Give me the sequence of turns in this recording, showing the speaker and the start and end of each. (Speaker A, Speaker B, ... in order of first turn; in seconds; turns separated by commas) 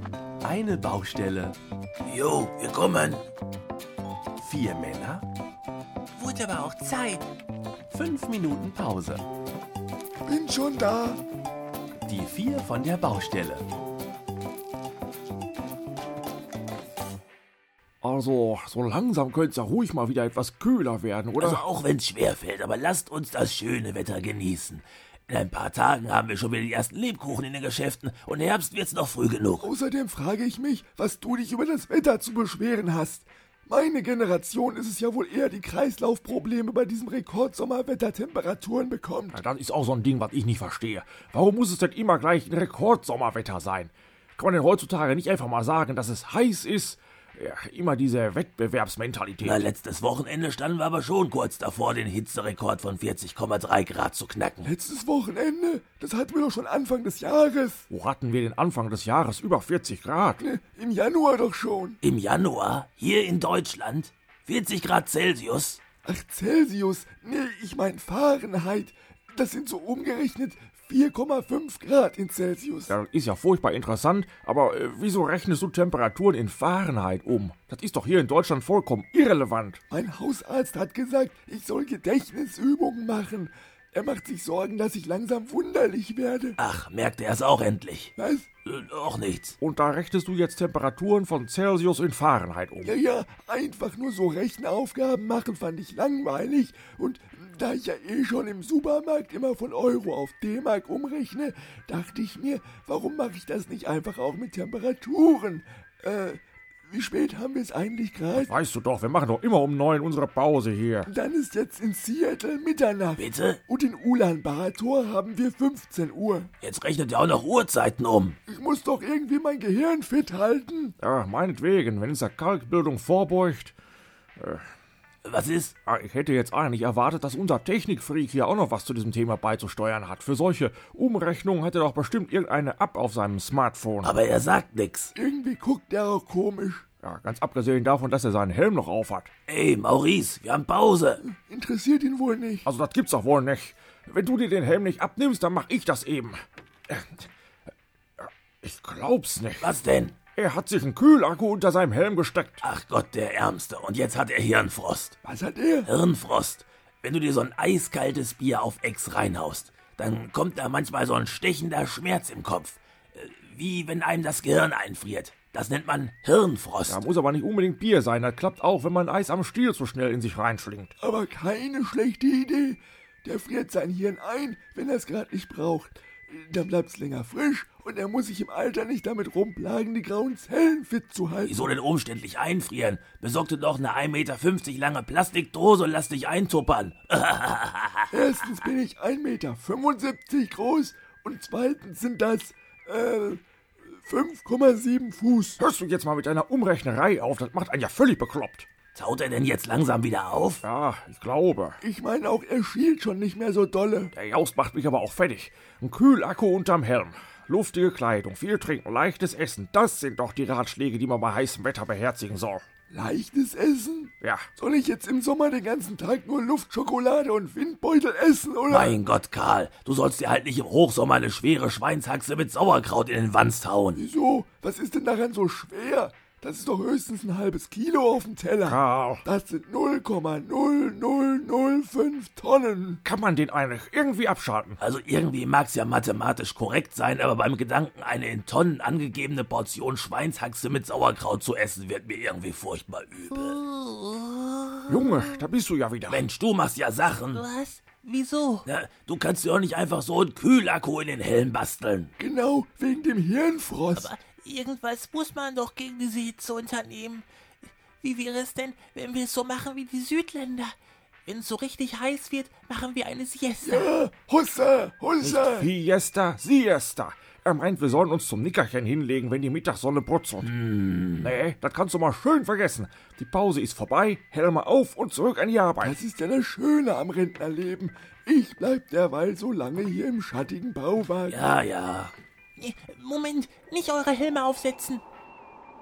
Speaker A: 0.4-1.6, Speaker B: 2.1-3.2, Speaker A: 4.4-5.2, Speaker B: 6.2-7.2, Speaker A: 7.9-9.2, Speaker C: 10.3-11.2, Speaker A: 12.1-13.7, Speaker D: 18.0-21.6, Speaker B: 21.4-29.7, Speaker C: 29.6-39.4, Speaker D: 39.3-49.7, Speaker B: 49.4-54.7, Speaker C: 54.6-57.9, Speaker D: 57.9-60.4, Speaker C: 60.4-62.0, Speaker B: 62.0-65.8, Speaker C: 66.0-73.0, Speaker D: 72.9-79.8, Speaker C: 79.9-86.6, Speaker B: 86.6-88.1, Speaker C: 88.2-88.5, Speaker B: 88.7-89.6, Speaker D: 89.6-92.9, Speaker C: 92.8-108.5, Speaker D: 108.3-111.1, Speaker C: 111.1-116.5, Speaker B: 113.2-113.6, Speaker B: 116.6-118.4, Speaker C: 118.5-121.0, Speaker D: 121.0-123.8, Speaker D: 124.4-124.7, Speaker B: 125.2-125.8, Speaker D: 125.8-134.1, Speaker B: 134.0-135.1, Speaker C: 135.2-136.9, Speaker D: 137.0-139.3, Speaker B: 139.5-141.2, Speaker C: 141.3-142.7, Speaker D: 142.7-147.3, Speaker D: 148.2-149.8, Speaker B: 149.6-150.2, Speaker D: 150.3-152.7, Speaker B: 152.6-155.2, Speaker C: 155.2-155.9, Speaker B: 155.8-167.0, Speaker D: 166.9-170.9, Speaker C: 171.0-181.6, Speaker B: 181.4-188.2, Speaker C: 188.1-193.4, Speaker C: 194.0-195.6, Speaker D: 195.6-198.7, Speaker B: 198.9-200.6, Speaker D: 200.6-201.8, Speaker C: 201.8-204.1, Speaker D: 204.1-212.7, Speaker C: 212.9-219.0, Speaker B: 218.7-224.0, Speaker C: 223.9-233.0, Speaker D: 228.7-229.2, Speaker D: 233.0-234.8, Speaker B: 234.8-243.6, Speaker E: 243.7-244.2, Speaker D: 244.9-246.3, Speaker B: 246.1-247.5, Speaker E: 247.4-248.6, Speaker B: 248.7-252.1, Speaker C: 252.2-254.2, Speaker E: 254.5-257.1, Speaker E: 258.0-258.6, Speaker B: 258.9-259.5, Speaker E: 259.6-260.6, Speaker E: 261.3-263.9, Speaker C: 263.6-265.7, Speaker D: 265.2-270.5, Speaker B: 270.4-271.3, Speaker D: 271.2-276.0, Speaker C: 275.8-281.4, Speaker B: 281.3-282.1, Speaker E: 282.6-285.0